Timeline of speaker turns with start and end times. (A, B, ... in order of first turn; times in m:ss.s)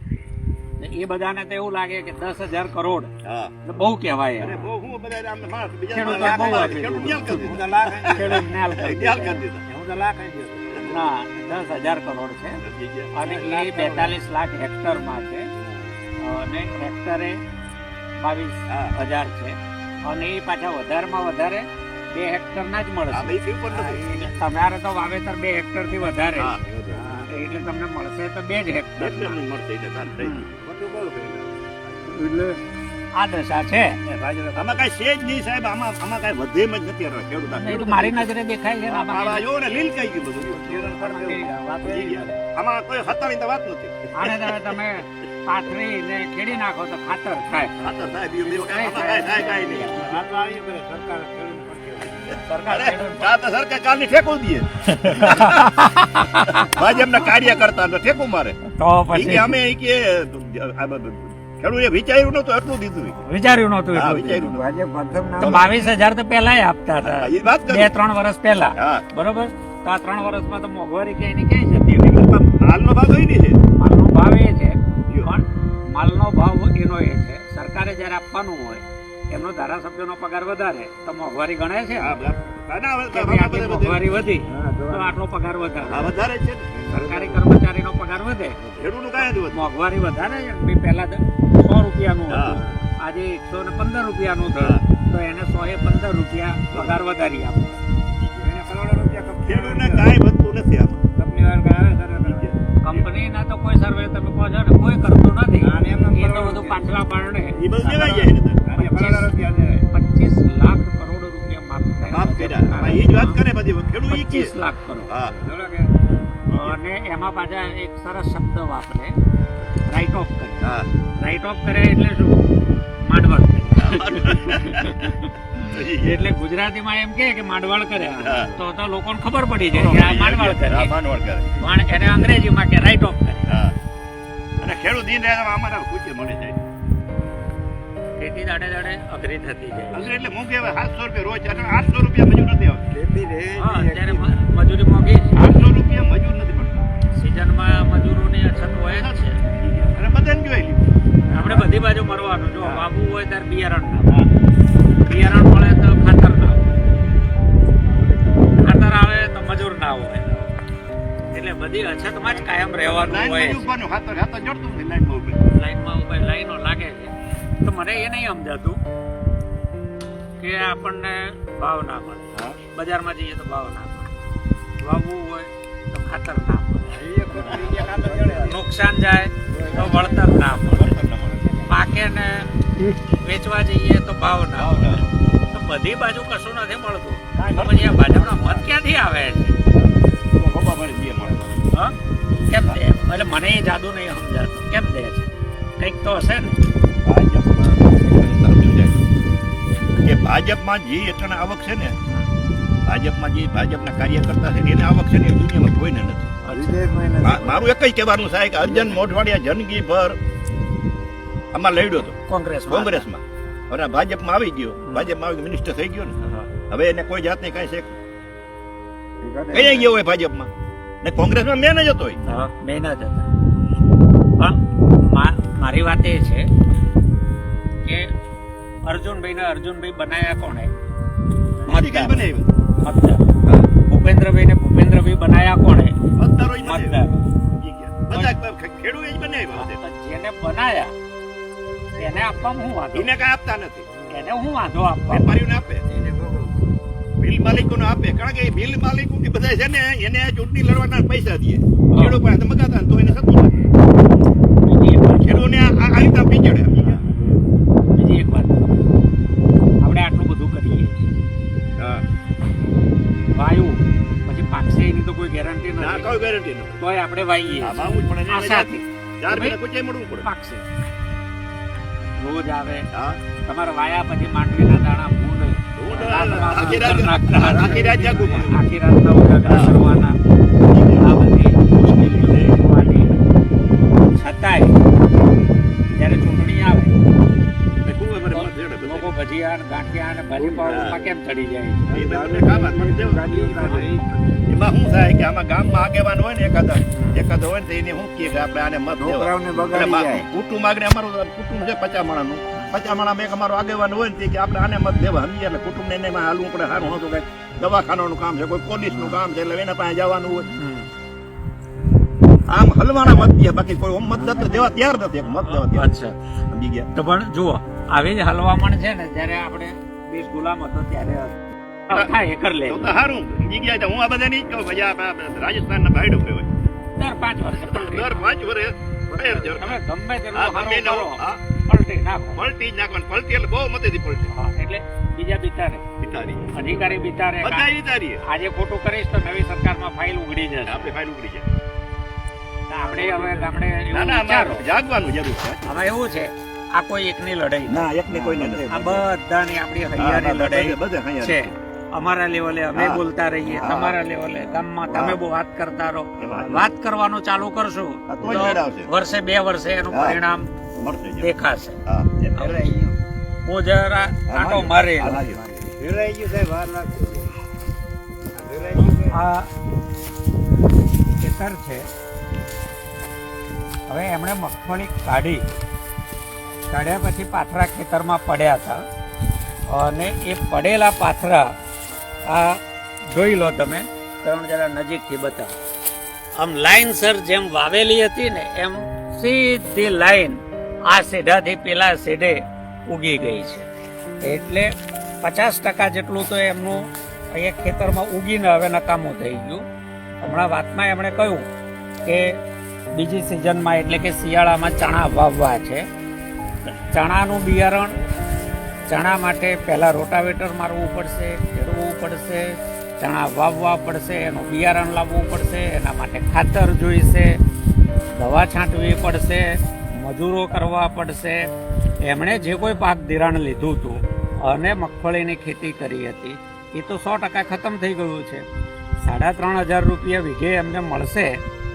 0:00.8-0:03.1 A
0:03.2-0:03.5 B
0:03.6-0:04.6 A
0:04.4-0:09.6 B
0:05.9-0:09.4 A
0:06.0-0:08.4 C
0:09.6-0:10.9 C
0:10.8-0:12.6 A
0:12.6-0:13.1 B
0:13.1-0:15.5 A
0:13.2-0:14.1 C
0:16.2-0:17.4 A
0:18.2-0:26.6 A
0:18.7-0:18.9 B
0:23.1-0:24.3 B
0:26.3-0:27.0 B
0:26.9-0:27.3 C
0:27.1-0:29.4 A
0:29.0-0:30.6 B
0:30.2-0:30.4 A
0:30.6-0:32.2 C
0:32.1-0:32.6 A
0:33.1-0:34.0 A
0:34.0-0:34.8 C
0:34.5-0:38.3 B
0:37.6-0:39.4 A
0:38.8-0:41.3 B
0:40.6-0:42.3 A
0:41.1-0:41.4 C
0:41.8-0:44.8 B
0:44.2-0:47.7 A
0:47.8-0:50.2 B
0:48.5-0:52.4 C
0:48.6-0:50.2 A
0:52.2-0:55.8 B
0:52.3-0:53.3 A
0:54.8-0:56.8 A
0:56.5-0:58.6 B
0:58.7-0:59.5 A
0:59.1-1:03.1 B
1:03.2-1:04.4 A
1:03.9-1:04.7 B
1:04.3-1:05.6 D
1:05.4-1:05.8 B
1:05.4-1:12.2 A
1:07.0-1:07.9 B
1:08.8-1:09.0 B
1:12.1-1:13.6 B
1:13.8-1:22.2 A
1:22.0-1:24.1 B
1:23.1-1:26.1 A
1:24.5-1:25.1 C
1:24.6-1:25.0 D
1:25.9-1:26.8 B
1:26.9-1:28.6 A
1:26.9-1:27.4 C
1:27.0-1:27.3 D
1:28.8-1:29.6 B
1:29.2-1:37.8 A
1:32.3-1:32.7 B
1:36.7-1:37.0 B
1:38.3-1:40.1 C
1:39.5-1:41.0 B
1:41.1-1:42.5 C
1:42.2-1:43.1 B
1:42.8-1:47.6 A
1:45.6-1:46.8 C
1:47.5-1:48.7 B
1:47.8-1:49.8 C
1:48.8-1:49.3 A
1:49.8-1:53.4 A
1:52.0-1:54.5 B
1:54.1-1:55.1 A
1:55.1-1:55.4 B
1:55.4-1:55.9 C
1:56.5-1:59.2 A
1:56.5-1:56.8 B
1:59.8-2:02.4 A
2:00.6-2:00.9 B
2:03.0-2:10.9 A
2:03.8-2:06.2 B
2:08.1-2:08.6 B
2:09.7-2:12.3 B
2:11.6-2:13.5 A
2:13.5-2:13.8 B
2:14.6-2:16.6 B
2:18.2-2:20.1 A
2:19.9-2:22.9 B
2:22.9-2:24.4 C
2:23.6-2:25.4 A
2:25.3-2:26.9 B
2:27.2-2:29.4 A
2:28.9-2:31.6 B
2:31.3-2:34.1 A
2:32.6-2:32.9 B
2:35.0-2:36.7 A
2:37.8-2:38.5 C
2:38.6-2:40.2 A
2:41.3-2:43.7 A
2:42.8-2:45.4 B
2:45.5-2:48.8 A
2:50.4-2:54.1 A
2:54.8-2:57.0 A
2:56.9-2:58.6 C
2:57.3-2:57.9 B
2:57.3-2:58.2 D
2:58.3-3:01.0 A
2:59.5-3:00.3 C
3:00.2-3:01.4 B
3:01.2-3:01.7 C
3:01.7-3:02.5 A
3:03.0-3:09.6 A
3:04.5-3:05.0 B
3:07.5-3:08.7 B
3:09.7-3:11.6 B
3:12.4-3:16.6 A
3:17.0-3:19.0 B
3:20.0-3:21.9 B
3:22.8-3:26.4 B
3:26.5-3:27.7 D
3:27.2-3:30.2 B
3:28.6-3:29.0 D
3:31.5-3:32.2 B
3:32.3-3:33.1 A
3:32.7-3:38.0 B
3:34.8-3:35.1 A
3:39.2-3:39.9 D
3:39.5-3:40.5 B
3:41.0-3:42.2 B
3:42.2-3:43.3 A
3:44.4-3:46.5 A
3:47.8-3:48.1 A
3:48.8-3:50.7 A
3:51.6-3:52.2 A
3:51.7-3:52.5 B
3:52.8-3:53.3 A
3:53.8-3:55.9 A
3:56.2-3:57.0 B
3:56.6-3:57.3 A
3:57.5-3:59.8 B
3:59.5-4:00.9 A
4:02.0-4:03.1 A
4:02.9-4:03.9 B
4:04.1-4:05.3 A
4:05.1-4:05.8 B
4:05.9-4:06.6 C
4:07.2-4:13.6 B
4:11.9-4:12.2 A
4:14.6-4:15.4 A
4:15.2-4:17.0 B
4:17.9-4:18.9 A
4:19.8-4:21.1 A
4:21.8-4:22.0 B
4:23.3-4:29.6 A
4:25.8-4:26.8 B
4:27.6-4:30.3 B
4:30.2-4:30.6 A
4:32.2-4:32.9 A
4:32.9-4:33.2 B
4:33.4-4:40.2 A
4:35.8-4:38.6 B
4:36.2-4:36.7 C
4:37.3-4:38.4 C
4:39.4-4:39.8 B
4:40.7-4:41.3 B
4:40.9-4:43.1 A
4:44.1-4:44.7 A
4:45.9-4:47.0 A
4:47.8-4:49.1 B
4:48.3-4:51.8 A
4:50.4-4:50.8 C
4:50.6-4:50.9 B
4:51.8-4:54.4 C
4:51.9-4:53.4 B
4:53.3-4:53.9 D
4:54.5-5:10.5 B
4:56.9-4:57.2 A
4:59.0-5:00.3 D
5:08.9-5:09.2 A
5:10.4-5:10.9 A
5:12.5-5:15.9 B
5:14.2-5:14.6 A
5:15.3-5:16.2 A
5:16.5-5:16.9 B
5:16.9-5:22.9 A
5:22.7-5:26.5 B
5:27.0-5:28.2 A
5:27.6-5:29.8 B
5:29.4-5:32.4 A
5:30.3-5:31.4 B
5:32.4-5:34.3 B
5:34.3-5:35.8 A
5:36.0-5:38.2 B
5:36.5-5:37.7 A
5:38.2-5:40.9 A
5:40.6-5:41.5 B
5:42.7-5:44.6 A
5:42.8-5:43.6 C
5:43.9-5:45.9 B
5:45.6-5:47.9 A
5:47.7-5:49.1 B
5:48.1-5:48.7 D
5:48.7-6:00.5 A
5:50.0-5:51.5 B
5:52.7-5:54.0 B
5:54.8-5:55.2 B
5:56.2-5:56.7 B
5:58.1-5:58.9 B
5:59.9-6:00.2 B
6:00.8-6:01.3 B
6:01.2-6:01.8 A
6:01.8-6:02.8 B
6:02.4-6:02.7 A
6:02.6-6:03.0 D
6:03.4-6:05.2 A
6:04.3-6:05.4 B
6:05.0-6:05.7 D
6:05.8-6:07.3 C
6:08.3-6:09.2 C
6:09.0-6:09.5 A
6:11.2-6:11.8 A
6:13.9-6:15.4 A
6:16.7-6:18.8 A
6:19.7-6:21.5 A
6:22.3-6:25.5 A
6:26.4-6:33.6 A
6:34.2-6:36.8 A
6:37.3-6:39.6 A
6:40.2-6:41.4 A
6:42.0-6:42.4 A
6:42.9-6:45.8 A
6:46.7-6:48.0 A
6:48.9-6:57.3 A
6:58.2-7:01.4 A
7:02.0-7:08.4 A
7:09.0-7:11.4 A